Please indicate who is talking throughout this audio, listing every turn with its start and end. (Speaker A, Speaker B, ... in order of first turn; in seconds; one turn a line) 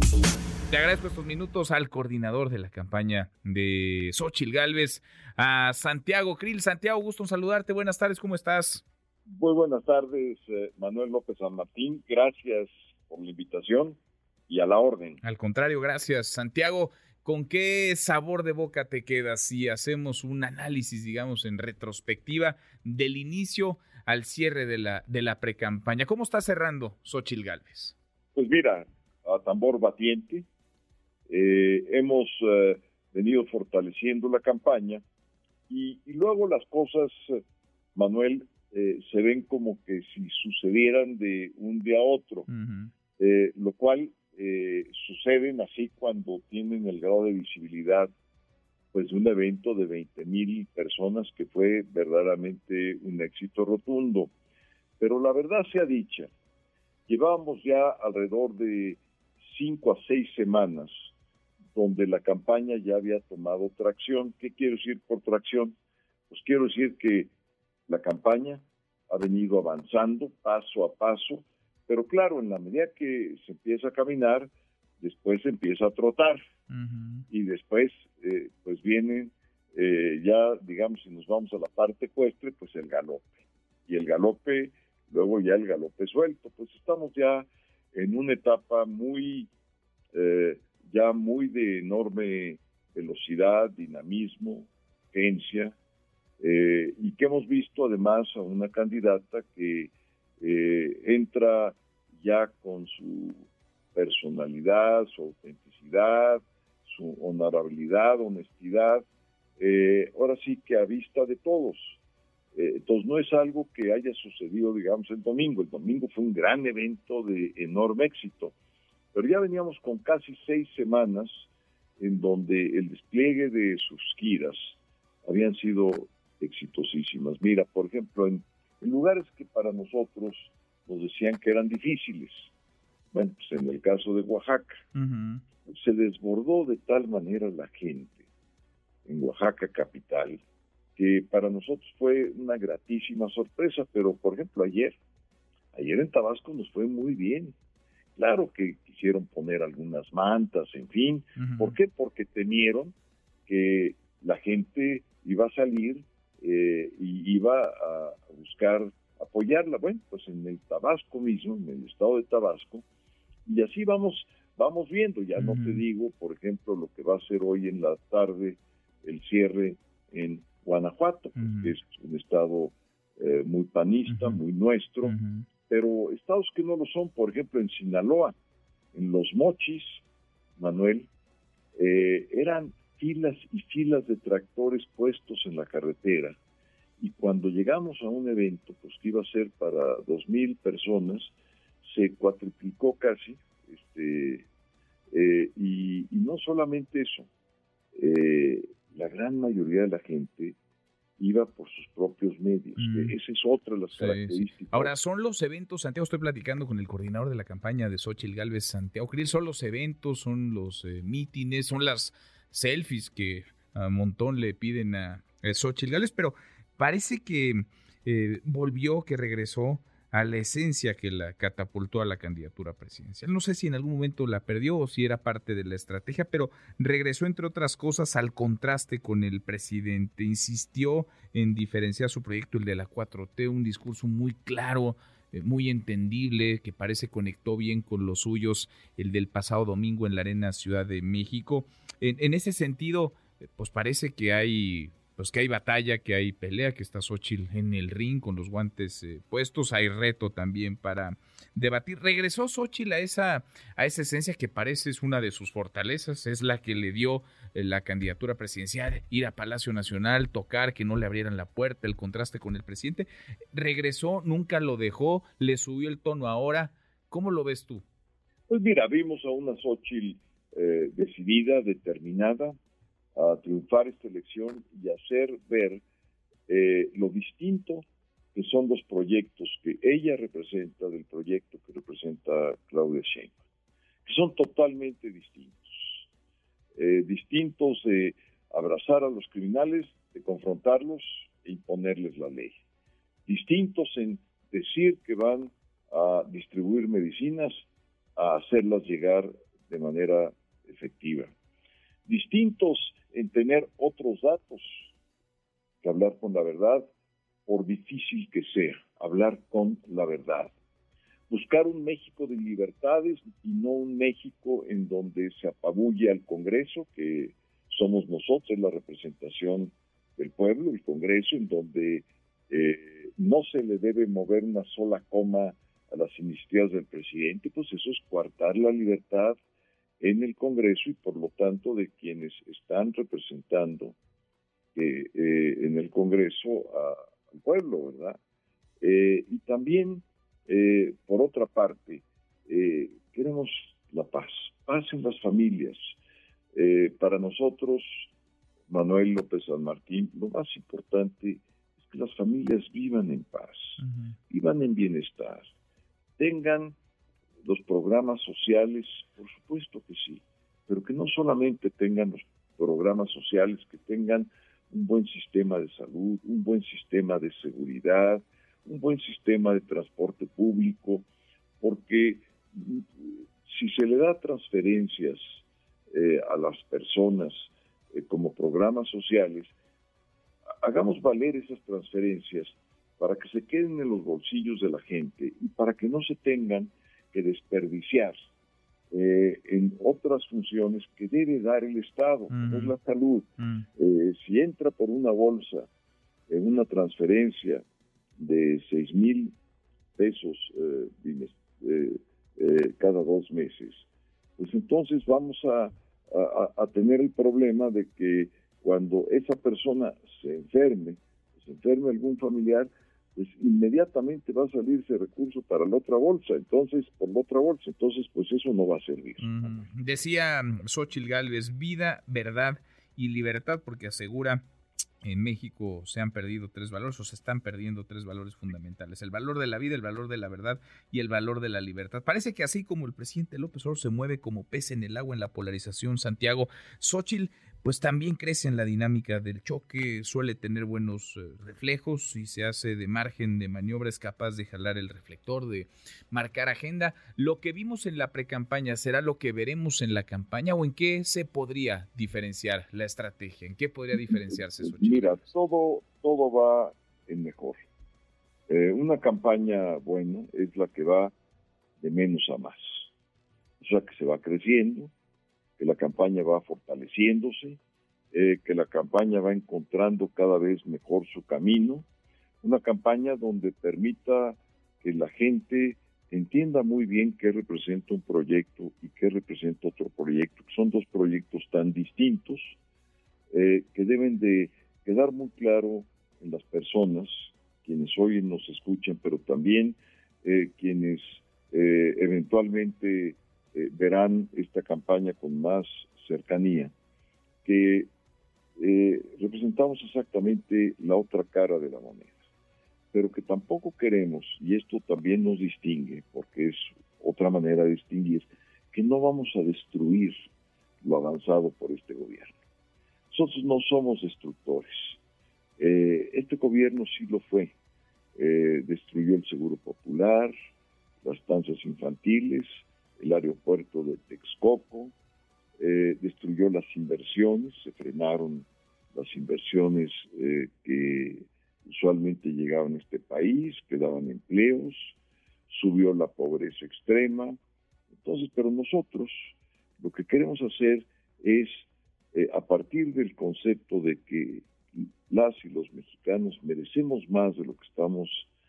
Speaker A: 0.7-8.8
Speaker B: 9.3-15.2
Speaker A: 15.2-27.9
Speaker B: 28.3-30.5
Speaker B: 31.3-35.0
Speaker B: 35.7-37.4
Speaker B: 38.0-42.5
Speaker A: 42.5-42.9
Speaker B: 43.2-48.1
Speaker B: 48.9-54.3
Speaker B: 55.0-56.3
Speaker B: 57.1-61.1
Speaker B: 61.8-65.8
Speaker B: 66.3-67.3
Speaker B: 67.9-76.4
Speaker A: 76.7-77.2
Speaker B: 77.3-83.3
Speaker B: 83.9-89.5
Speaker B: 90.1-95.8
Speaker B: 96.4-109.0
Speaker B: 109.6-112.0
Speaker B: 112.5-118.6
Speaker B: 119.1-132.5
Speaker B: 133.1-134.8
Speaker A: 134.9-135.4
Speaker B: 135.7-138.3
Speaker B: 139.1-140.4
Speaker B: 141.0-145.0
Speaker B: 145.7-147.6
Speaker B: 148.2-152.9
Speaker A: 151.4-151.7
Speaker B: 153.5-162.8
Speaker B: 163.5-175.2
Speaker A: 165.4-165.8
Speaker A: 171.4-171.7
Speaker A: 174.1-174.4
Speaker A: 175.0-175.5
Speaker B: 175.7-178.3
Speaker B: 178.9-180.0
Speaker B: 180.6-181.1
Speaker B: 181.8-186.3
Speaker B: 187.0-194.5
Speaker B: 195.1-197.3
Speaker B: 197.9-200.6
Speaker B: 201.2-204.9
Speaker A: 202.8-203.2
Speaker A: 203.9-267.8
Speaker B: 268.5-272.5
Speaker B: 273.2-275.8
Speaker B: 276.5-283.4
Speaker B: 284.1-286.1
Speaker B: 286.8-292.6
Speaker B: 293.2-297.6
Speaker B: 298.2-301.3
Speaker B: 302.1-304.9
Speaker B: 305.8-306.9
Speaker B: 307.4-310.5
Speaker B: 311.3-329.4
Speaker B: 330.0-333.9
Speaker B: 334.8-338.2
Speaker B: 338.8-345.9
Speaker B: 346.5-348.1
Speaker B: 348.7-355.5
Speaker A: 353.8-354.1
Speaker B: 356.2-356.8
Speaker B: 357.4-371.1
Speaker B: 371.6-379.5
Speaker B: 380.6-388.2
Speaker B: 388.9-395.7
Speaker A: 392.3-392.8
Speaker A: 393.4-393.6
Speaker B: 396.3-397.6
Speaker B: 398.2-399.4
Speaker B: 400.0-419.7
Speaker A: 419.2-424.4
Speaker A: 425.0-455.2
Speaker B: 453.9-457.6
Speaker B: 458.5-461.1
Speaker B: 461.8-462.9
Speaker B: 463.6-464.9
Speaker B: 465.6-467.6
Speaker B: 468.1-471.9
Speaker B: 472.4-482.6
Speaker B: 483.3-496.7
Speaker B: 497.4-497.9
Speaker B: 498.6-502.2
Speaker B: 502.9-510.3
Speaker B: 510.8-512.4
Speaker B: 513.1-515.0
Speaker B: 515.6-517.5
Speaker B: 518.1-520.3
Speaker B: 521.0-524.9
Speaker B: 525.6-535.0
Speaker B: 535.5-537.4
Speaker B: 538.0-548.3